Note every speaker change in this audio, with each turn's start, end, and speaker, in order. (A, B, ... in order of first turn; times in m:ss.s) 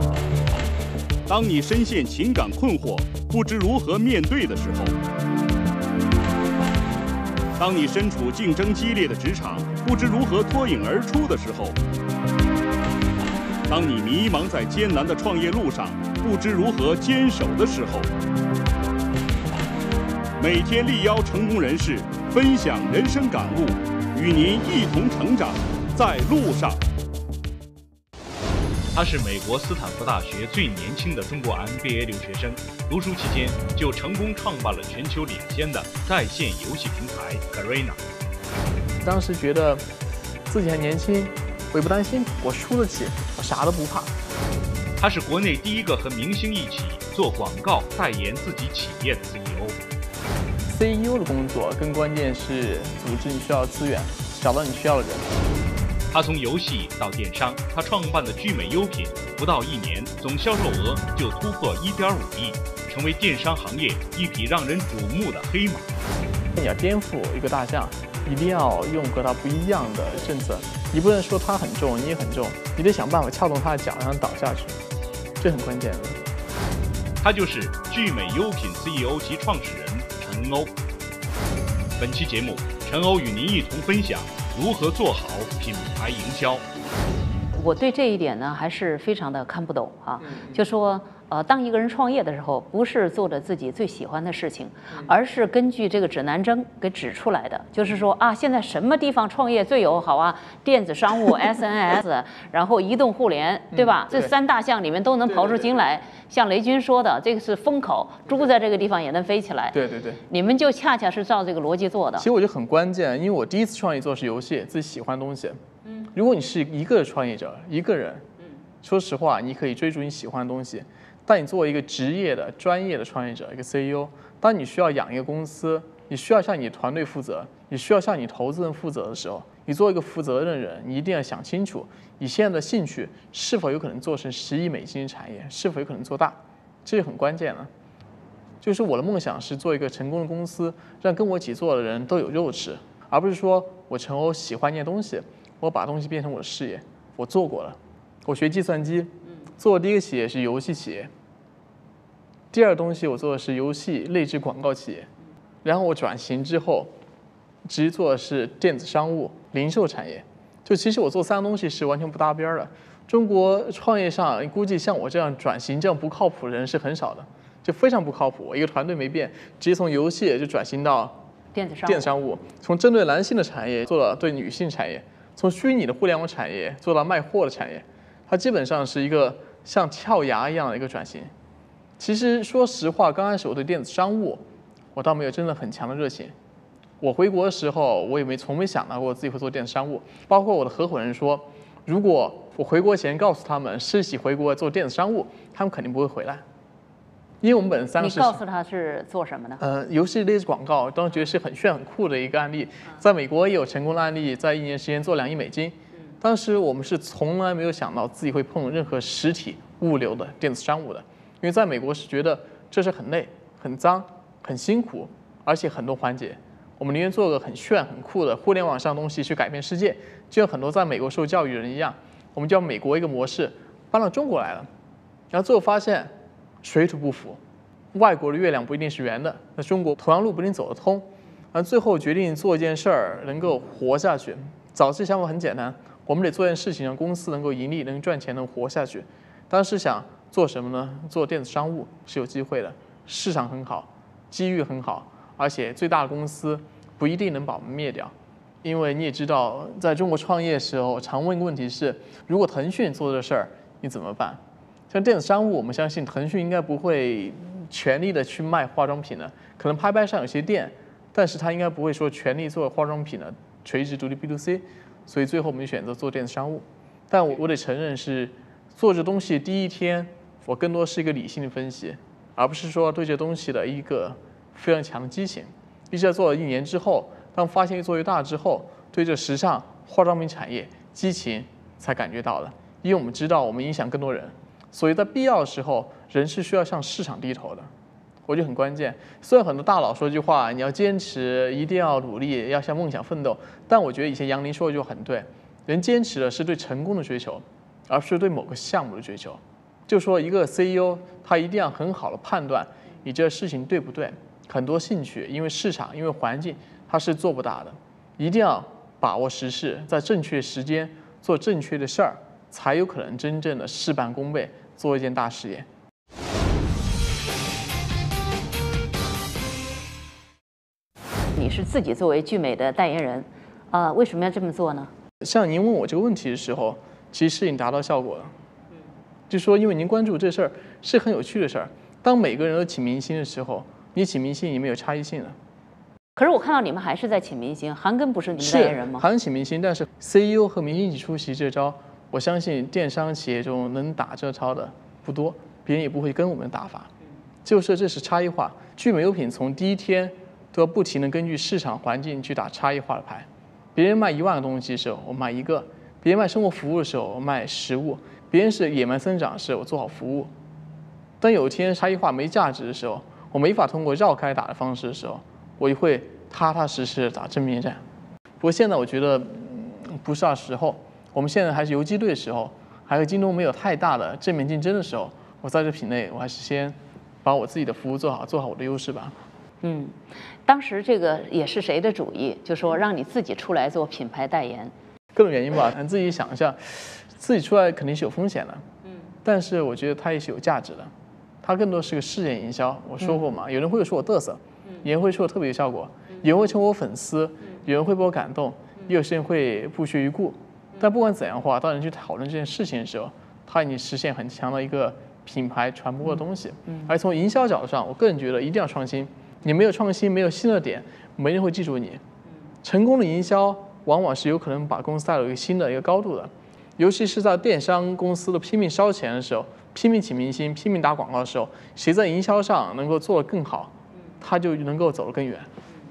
0:01.3-0:04.9 A
0:07.6-0:11.8 A
0:13.7-0:18.1 A
0:20.4-0:26.8 A
0:28.9-0:38.0 B
0:39.0-0:39.8 C
0:40.5-0:44.1 C
0:45.0-0:49.8 B
0:50.7-0:55.3 C
0:56.1-1:05.9 B
1:06.6-1:14.8 C
1:15.4-1:16.2 C
1:17.2-1:20.7 B
1:22.0-1:26.6 B
1:27.5-1:52.3 D
1:43.7-1:44.3 C
1:45.3-1:45.7 C
1:49.7-1:50.2 C
1:52.2-1:55.6 C
1:56.1-1:58.2 C
1:58.8-2:17.7 C
2:18.6-2:31.1 C
2:32.5-2:35.1 C
2:35.6-2:36.9 C
2:37.6-2:51.2 C
2:51.5-2:52.1 D
2:51.8-3:01.3 C
3:02.0-3:04.4 C
3:04.9-3:06.3 C
3:07.0-3:16.4 C
3:17.4-3:18.4 C
3:18.0-3:19.6 D
3:19.6-3:44.7 C
3:45.3-3:46.1 C
3:46.6-3:47.4 C
3:47.9-4:47.7 C
4:48.2-5:15.6 C
5:21.3-5:24.9 D
5:25.2-5:28.3 C
5:29.3-5:35.3 C
5:36.2-5:39.0 D
5:38.4-5:46.9 C
5:47.4-6:00.3 C
6:01.2-6:07.8 C
6:08.4-6:19.2 C
6:19.6-6:24.7 D
6:25.1-6:28.6 C
6:29.2-6:30.9 C
6:31.4-6:52.0 C
6:52.6-7:05.5 C